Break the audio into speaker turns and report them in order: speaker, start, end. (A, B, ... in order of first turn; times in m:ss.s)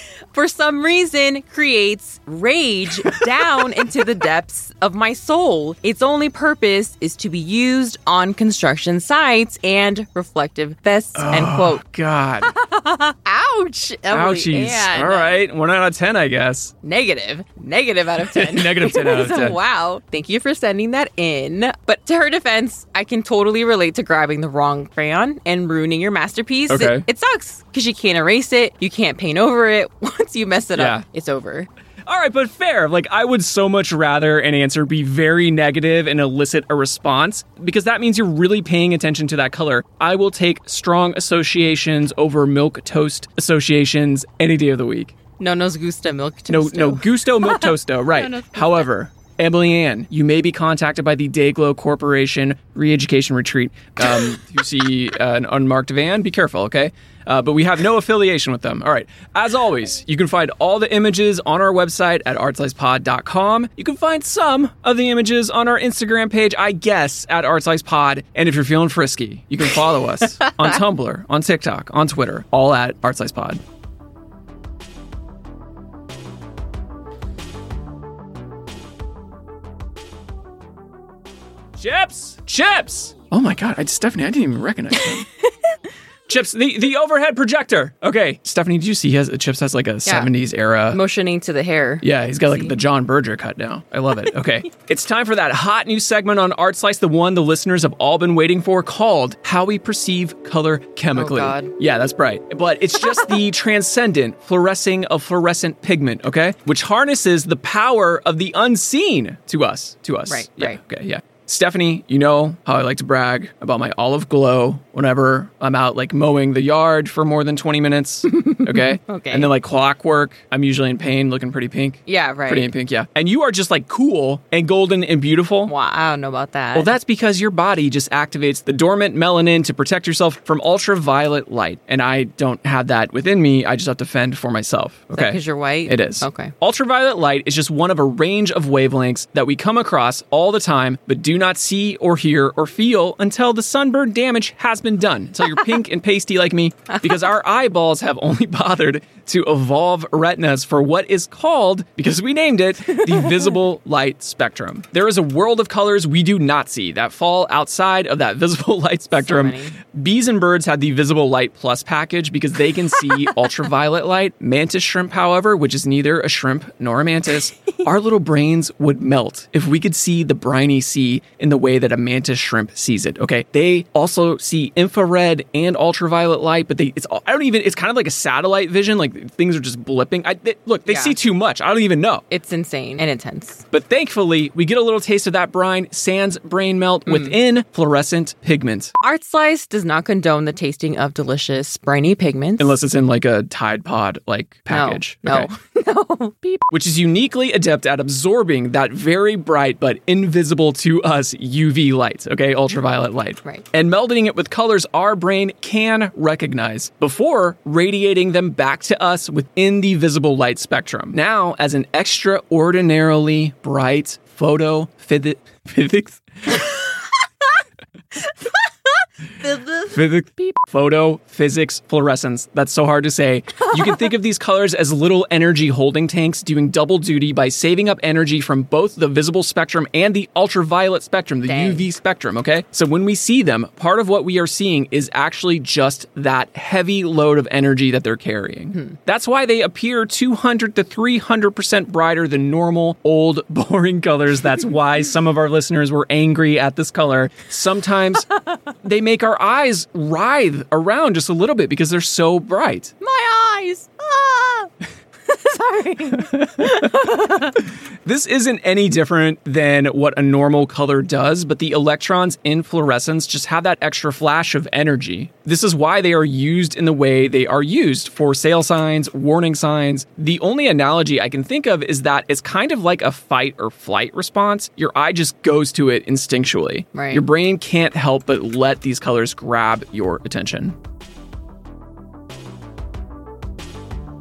0:00.3-0:11.8 A
0:11.1-0:12.5 B
0:12.4-0:15.4 A
0:14.1-0:16.7 B
0:16.8-0:31.7 A
0:18.3-0:19.6 B
0:26.7-0:27.0 B
0:30.7-0:31.0 B
0:32.0-0:45.1 B
0:45.4-0:48.8 A
0:46.5-1:13.6 B
1:21.8-1:25.3 B
1:26.3-1:31.0 B
1:30.9-1:32.7 A
1:32.0-2:05.7 B
1:41.1-1:41.7 A
1:50.3-1:50.8 A
1:58.3-1:59.5 A
2:02.1-2:02.7 A
2:05.6-2:06.9 A
2:06.7-3:02.2 B
2:15.1-2:16.5 A
2:39.2-2:39.7 A
3:00.8-3:01.1 A
3:02.3-3:03.6 A
3:03.7-3:08.9 B
3:07.1-3:07.3 A
3:09.0-3:12.7 A
3:12.6-3:15.5 B
3:14.7-3:16.6 A
3:16.7-3:36.7 B
3:39.4-3:40.0 A
3:39.9-4:08.3 B
3:51.5-3:51.8 A
4:08.8-4:12.9 B
4:13.0-4:14.7 A
4:15.2-4:17.6 A
4:16.1-4:40.8 B
4:36.9-4:37.2 A